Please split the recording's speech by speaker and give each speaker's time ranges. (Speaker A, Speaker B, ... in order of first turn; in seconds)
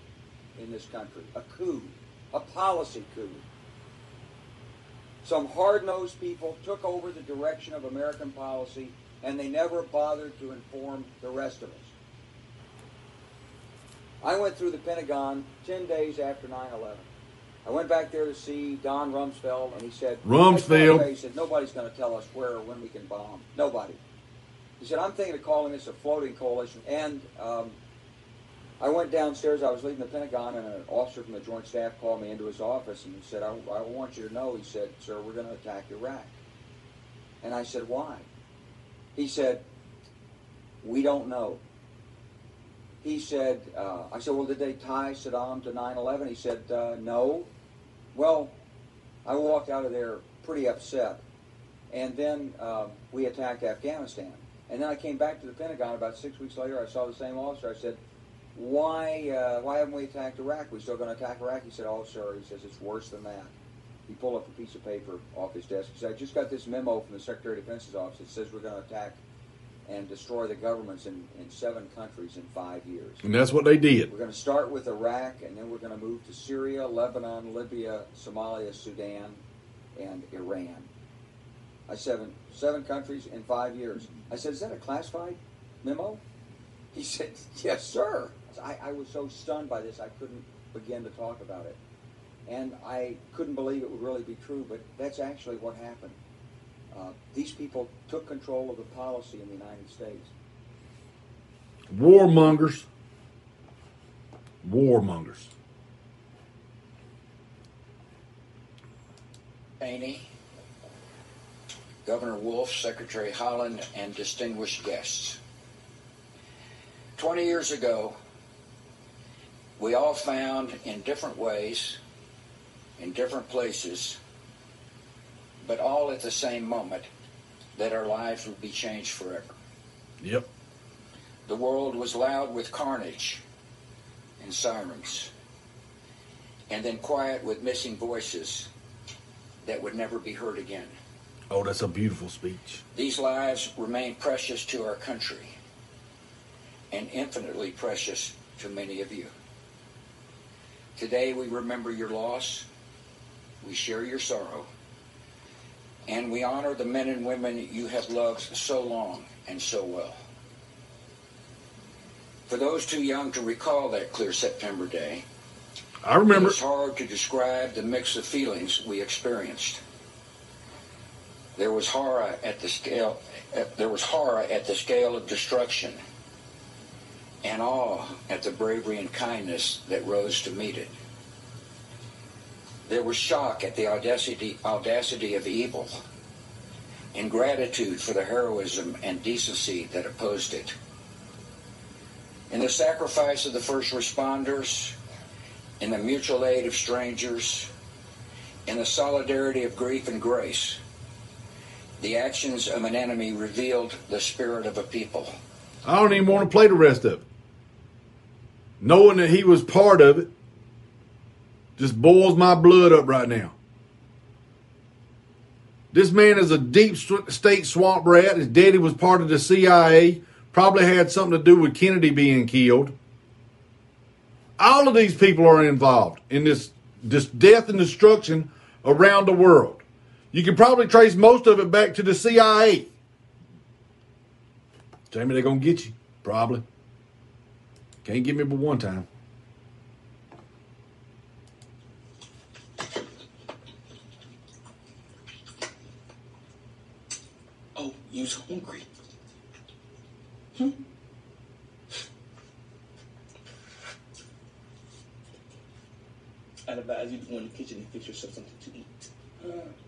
Speaker A: 0.6-3.4, 5.2-11.9, 14.2-17.1, 17.6-24.0, 24.8-27.8, 28.8-36.4, 37.4-38.3, 39.1-39.6, 40.8-41.6, 43.0-47.5, 48.1-48.5, 49.2-51.2, 51.9-58.0, 58.5-63.5, 64.1-69.2, 69.8-73.2, 74.1-79.4, 79.9-80.9, 81.9-86.2, 86.9-91.8, 92.5-96.2, 96.9-100.3
Speaker B: 20.2-21.1, 73.2-74.1, 101.9-102.8, 104.6-105.5, 130.2-130.5, 141.5-142.8, 166.0-166.6, 205.8-207.2, 208.8-210.3, 211.8-213.6, 215.9-222.9, 224.6-232.9, 235.1-236.6, 238.0-239.1
Speaker C: 109.8-110.3, 112.0-115.4, 117.2-118.2, 119.8-122.0, 123.0-124.2, 125.6-127.1, 127.8-129.5, 131.4-133.4, 134.4-135.3, 136.7-138.7, 139.6-140.9, 142.9-145.6, 146.9-149.3, 150.9-152.7, 153.6-154.7, 156.1-160.2, 162.5-165.2, 166.3-169.8, 171.6-176.0, 177.4-180.9, 182.9-186.0, 187.1-190.7, 192.5-194.9, 195.8-197.7, 198.7-200.8, 202.0-205.3
Speaker D: 247.8-248.8, 256.7-258.9